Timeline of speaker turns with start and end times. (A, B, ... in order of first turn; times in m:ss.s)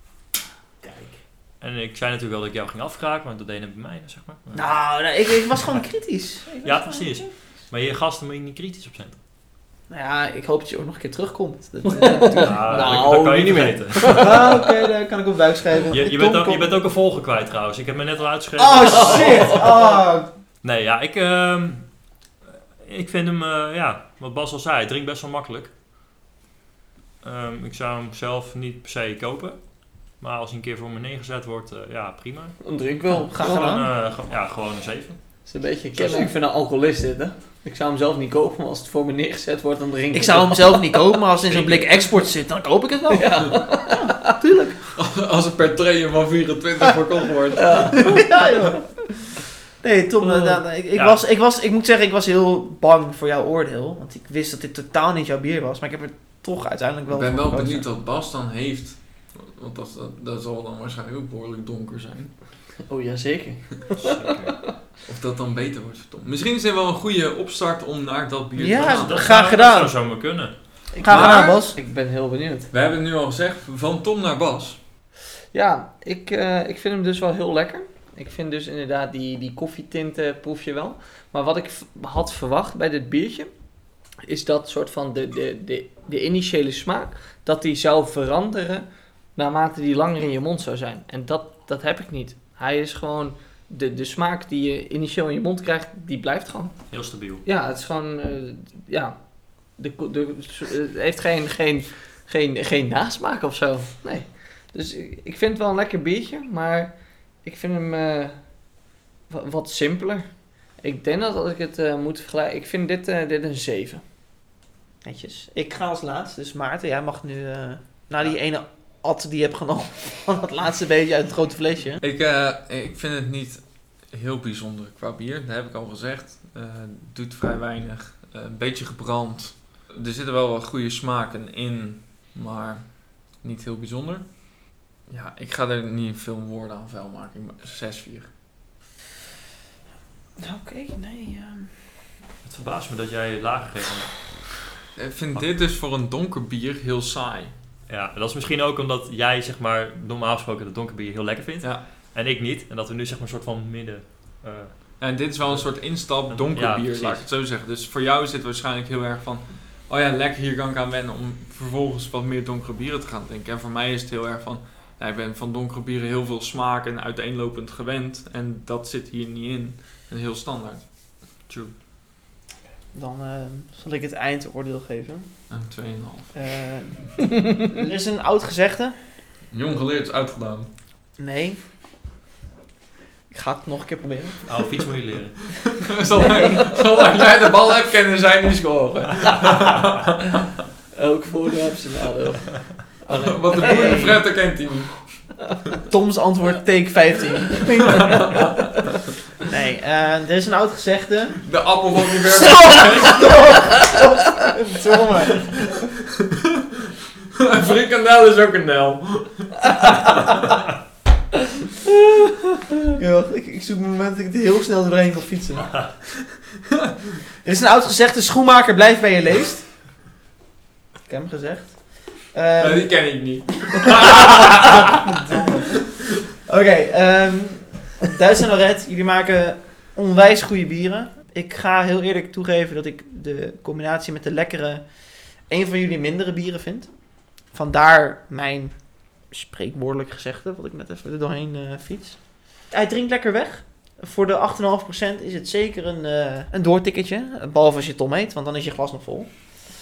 0:01.6-0:04.6 A
0:04.5-0:07.3 B
0:06.6-0:09.2 A
0:09.9-0:13.0 B
0:11.8-0:14.6 C
0:12.4-0:14.3 A
0:14.1-0:16.7 B
0:15.9-0:19.8 A
0:18.6-0:20.3 B
0:20.6-0:21.9 A
0:22.8-0:25.7 A
0:27.2-0:32.6 A
0:32.6-0:33.6 C
0:33.3-0:33.9 B
0:33.4-0:35.2 A
0:35.4-0:41.1 C
0:36.0-0:36.3 A
0:40.1-0:44.9 B
0:41.5-0:41.9 A
0:43.1-0:44.2 C
0:44.9-0:48.1 D
0:47.6-0:48.4 C
0:48.0-0:49.1 B
0:49.8-0:57.8 B
0:50.2-0:50.6 C
0:50.9-0:51.2 A
0:57.1-1:02.3 D
1:02.9-1:04.7 C
1:03.9-1:04.6 A
1:05.0-1:09.3 D
1:08.6-1:09.9 B
1:08.8-1:10.5 A
1:11.0-1:12.7 C
1:11.0-1:11.8 B
1:11.1-1:11.6 D
1:12.7-1:14.8 D
1:15.5-1:23.5 C
1:24.2-1:36.8 C
1:36.9-1:37.4 A
1:37.4-1:39.2 C
1:39.8-1:48.4 C
1:49.3-1:54.0 C
1:55.0-2:02.0 B
2:02.0-2:18.3 D
2:20.4-2:21.7 B
2:22.4-2:24.2 A
2:25.0-2:27.5 D
2:27.9-2:37.2 A
2:35.0-2:50.8 D
2:51.5-2:51.7 A
2:52.9-2:55.3 B
2:55.5-2:56.3 D
2:56.3-2:58.9 B
2:59.5-3:00.7 D
3:01.2-3:01.6 B
3:03.3-3:04.5 B
3:04.5-3:05.6 A
3:05.6-3:10.4 D
3:06.2-3:06.6 B
3:10.9-3:14.0 C
3:13.1-3:15.4 D
3:13.5-3:14.2 B
3:15.9-3:18.7 B
3:18.0-3:18.7 D
3:19.4-3:21.4 B
3:21.4-3:23.8 D
3:22.5-3:25.5 B
3:25.3-3:30.2 D
3:33.0-3:35.9 B
3:37.4-3:39.6 B
3:41.1-3:42.9 B
3:42.6-3:45.0 D
3:44.0-3:45.8 B
3:46.4-3:54.8 B
3:55.5-3:56.9 B
3:57.5-3:58.7 B
3:59.3-4:02.2 B
4:02.7-4:09.3 B